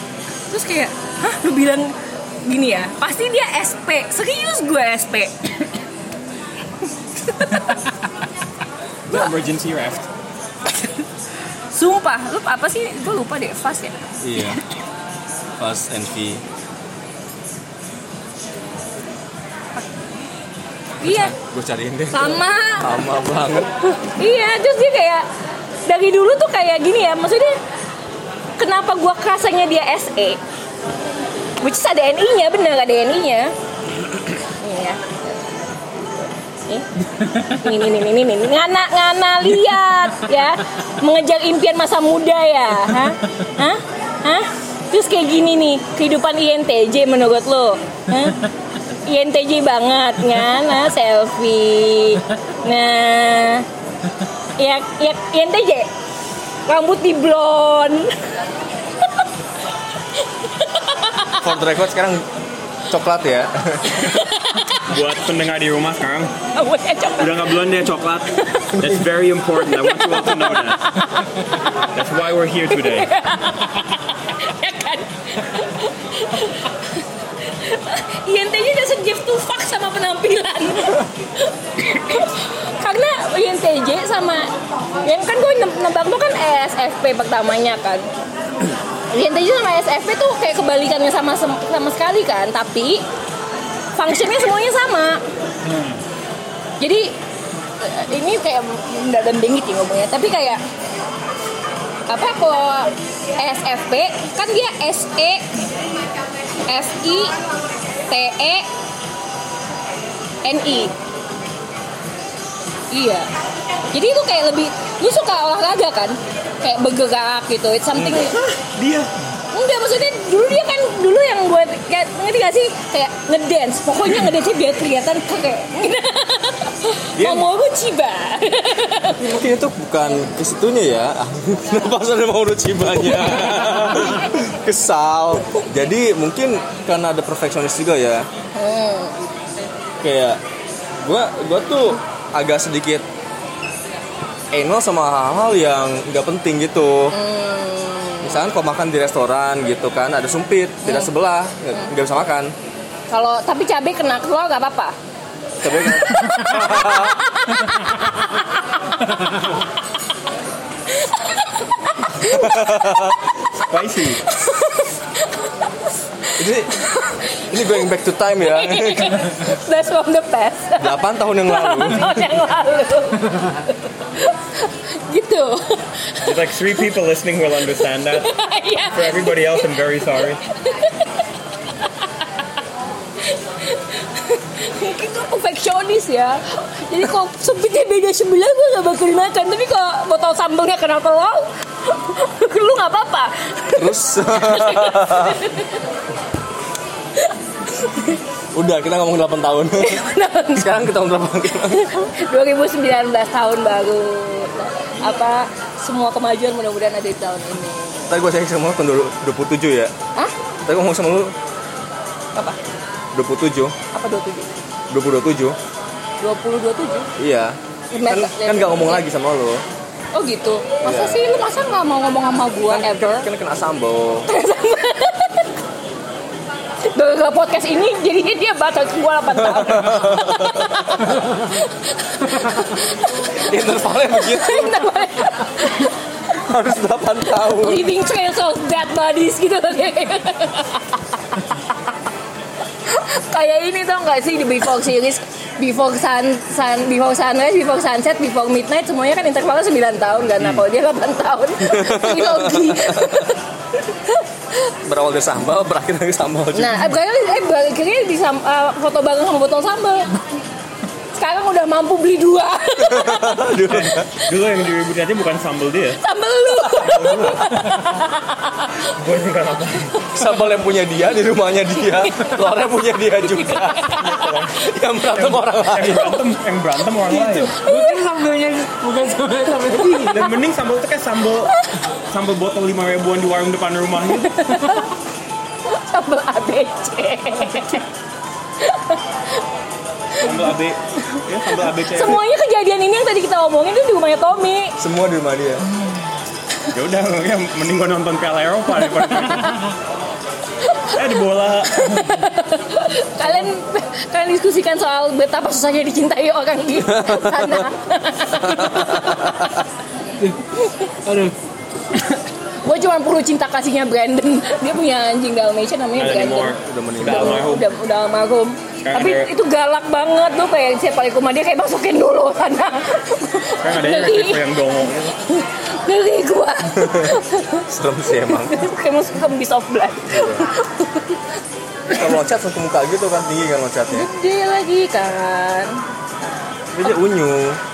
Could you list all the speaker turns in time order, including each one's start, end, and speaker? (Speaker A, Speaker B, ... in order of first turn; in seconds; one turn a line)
Speaker A: 0.5-1.9
Speaker A: 2.4-5.3
Speaker A: 7.2-7.8
Speaker B: 9.1-10.1
Speaker A: 11.7-14.6
Speaker C: 14.2-14.6
Speaker C: 15.6-16.4
Speaker A: 21.0-21.3
Speaker C: 21.0-23.7
Speaker A: 22.1-22.9
Speaker A: 23.9-25.2
Speaker A: 25.9-27.6
Speaker A: 28.6-30.4
Speaker A: 31.6-33.5
Speaker A: 34.6-35.0
Speaker A: 37.4-48.5
Speaker A: 49.0-53.6
Speaker A: 54.6-55.9
Speaker A: 56.7-58.2
Speaker A: 59.0-59.3
Speaker A: 60.2-61.5
Speaker C: 61.4-62.2
Speaker C: 62.9-64.1
Speaker A: 64.0-64.9
Speaker B: 64.8-66.3
Speaker A: 66.5-67.6
Speaker B: 67.2-70.8
Speaker A: 68.4-68.8
Speaker A: 69.7-71.8
Speaker B: 71.9-73.1
Speaker A: 72.7-84.5
Speaker A: 85.0-88.1
Speaker A: 89.1-93.0
Speaker A: 93.9-95.2
Speaker D: 95.6-96.0
Speaker A: 96.8-97.1
Speaker A: 97.8-100.6
Speaker A: 102.1-105.5
Speaker A: 106.7-107.3
Speaker A: 108.1-108.7
Speaker A: 110.4-110.9
Speaker A: 112.9-113.3
Speaker A: 113.9-118.4
Speaker B: 118.0-119.1
Speaker A: 119.5-129.2
Speaker B: 127.2-127.5
Speaker C: 129.2-138.3
Speaker A: 133.6-134.1
Speaker A: 138.5-139.2
Speaker C: 140.0-140.4
Speaker C: 141.0-143.0
Speaker C: 144.5-147.2
Speaker A: 147.1-148.4
Speaker C: 148.2-152.5
Speaker A: 150.8-151.1
Speaker A: 153.1-154.9
Speaker C: 155.6-157.3
Speaker A: 155.8-158.6
Speaker A: 160.9-162.6
Speaker C: 162.2-163.2
Speaker B: 163.6-164.2
Speaker A: 164.2-167.8
Speaker C: 166.4-166.8
Speaker C: 167.5-169.3
Speaker A: 168.4-176.6
Speaker C: 170.8-172.2
Speaker B: 176.2-178.3
Speaker A: 178.1-179.7
Speaker B: 178.9-180.4
Speaker A: 180.5-181.2
Speaker A: 181.8-182.3
Speaker A: 183.2-195.8
Speaker C: 193.7-195.4
Speaker A: 197.2-198.2
Speaker C: 198.5-201.9
Speaker A: 199.8-200.8
Speaker A: 201.7-208.1
Speaker C: 208.1-209.9
Speaker C: 210.6-211.3
Speaker C: 213.1-213.7
Speaker A: 213.9-214.5
Speaker C: 214.9-215.6
Speaker A: 216.2-217.1
Speaker C: 217.2-219.6
Speaker A: 217.9-219.0
Speaker A: 220.1-223.3
Speaker C: 220.8-221.2
Speaker C: 222.7-224.3
Speaker A: 224.3-225.5
Speaker A: 226.9-233.5
Speaker C: 229.3-231.2
Speaker C: 233.3-234.8
Speaker A: 234.1-236.0
Speaker C: 236.4-237.9
Speaker A: 237.4-241.7
Speaker A: 242.8-254.2
Speaker C: 251.6-253.3
Speaker C: 254.8-256.9
Speaker A: 256.5-260.1
Speaker A: 261.1-263.4
Speaker C: 262.8-264.1
Speaker B: 263.7-266.0
Speaker A: 266.0-268.9
Speaker B: 266.8-267.7
Speaker B: 268.9-270.0
Speaker C: 270.1-276.2
Speaker A: 271.9-272.4
Speaker A: 273.3-274.3
Speaker B: 274.0-277.5
Speaker D: 277.1-280.3
Speaker A: 277.6-278.0
Speaker B: 280.1-281.5
Speaker B: 282.1-284.5
Speaker A: 284.1-284.9
Speaker A: 285.7-287.8
Speaker A: 288.6-289.0
Speaker A: 290.2-290.5
Speaker B: 290.2-292.2
Speaker A: 291.8-294.7
Speaker C: 294.8-295.7
Speaker B: 296.7-299.6
Speaker A: 300.6-300.9
Speaker B: 300.9-302.2
Speaker A: 301.7-309.5
Speaker C: 306.8-307.7
Speaker C: 308.4-309.6
Speaker A: 310.6-310.9
Speaker D: 311.0-311.3
Speaker A: 312.6-324.4
Speaker B: 315.9-317.7
Speaker C: 316.6-317.5
Speaker B: 318.8-319.3
Speaker B: 323.6-325.2
Speaker A: 325.2-331.2
Speaker C: 326.7-328.7
Speaker C: 330.1-330.5
Speaker C: 331.9-334.1
Speaker A: 333.9-335.8
Speaker C: 336.7-337.6